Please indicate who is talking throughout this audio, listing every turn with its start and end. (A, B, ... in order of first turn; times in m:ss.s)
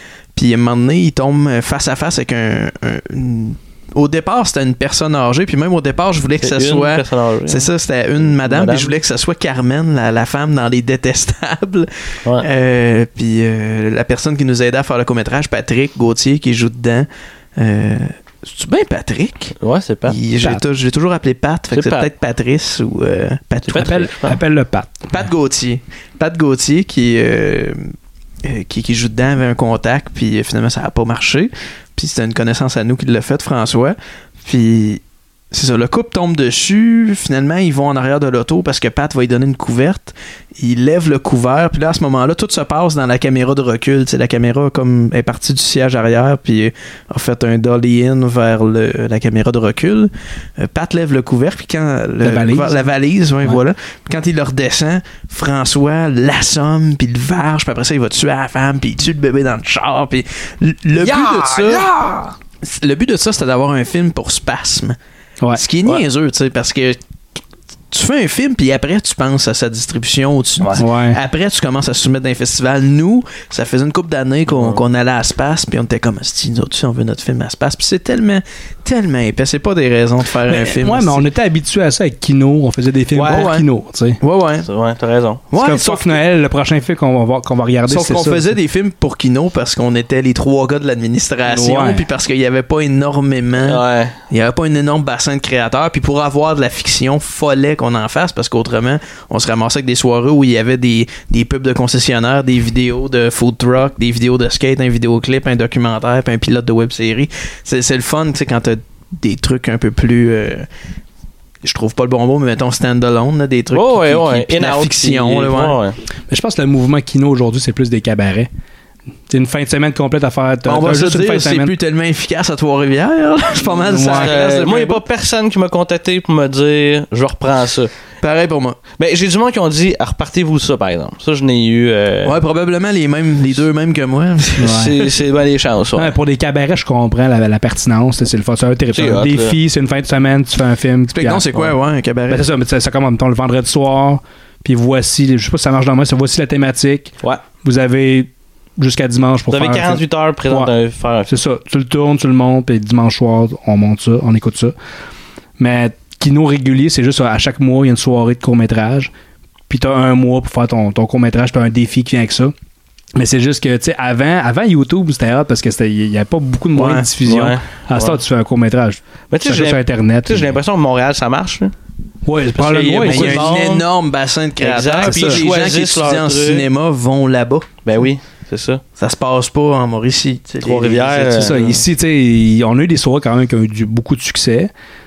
0:00.3-0:24.1 A
0:06.4-0:07.7 B
0:08.3-0:09.0 B
0:19.6-0:20.2 B
0:21.7-0:22.1 B
0:23.7-0:24.4 B
0:23.7-0:25.0 C
0:25.1-0:27.9 A
0:28.4-1:01.9 A
0:52.2-0:52.8 C
1:01.0-1:01.7 B
1:02.6-1:05.0 A
1:05.5-1:07.0 A
1:07.9-1:21.3 A
1:10.8-1:11.2 C
1:14.5-1:14.8 B
1:20.5-1:24.2 C
1:23.1-1:23.5 B
1:23.2-1:23.7 A
1:24.2-1:24.7 A
1:24.6-1:25.4 B
1:25.5-1:26.2 A
1:25.6-1:28.5 C
1:27.9-1:50.7 A
1:31.5-1:32.0 C
1:33.6-1:34.2 B
1:51.6-1:55.8 A
1:53.7-1:56.0 B
1:56.3-1:58.5 C
1:59.3-2:01.7 C
2:00.6-2:05.0 A
2:03.8-2:04.4 C
2:04.1-2:07.9 B
2:08.2-2:08.8 A
2:09.0-2:12.4 B
2:12.2-2:14.9 A
2:14.6-2:14.9 C
2:14.6-2:16.1 B
2:16.0-2:21.7 C
2:18.9-2:19.6 B
2:21.1-2:22.5 A
2:22.3-2:30.7 C
2:29.5-2:31.3 B
2:31.3-2:34.7 C
2:35.6-2:39.1 C
2:39.7-2:42.5 C
2:43.2-2:50.5 C
2:46.7-2:47.1 A
2:47.2-2:48.2 B
2:49.3-2:51.7 B
2:52.2-2:53.5 C
2:52.6-2:53.9 B
2:53.0-2:57.8 A
2:54.6-2:56.6 B
2:55.0-2:55.4 C
2:57.8-2:58.8 B
2:59.0-3:01.8 A
3:00.6-3:01.5 B
3:01.4-3:04.7 C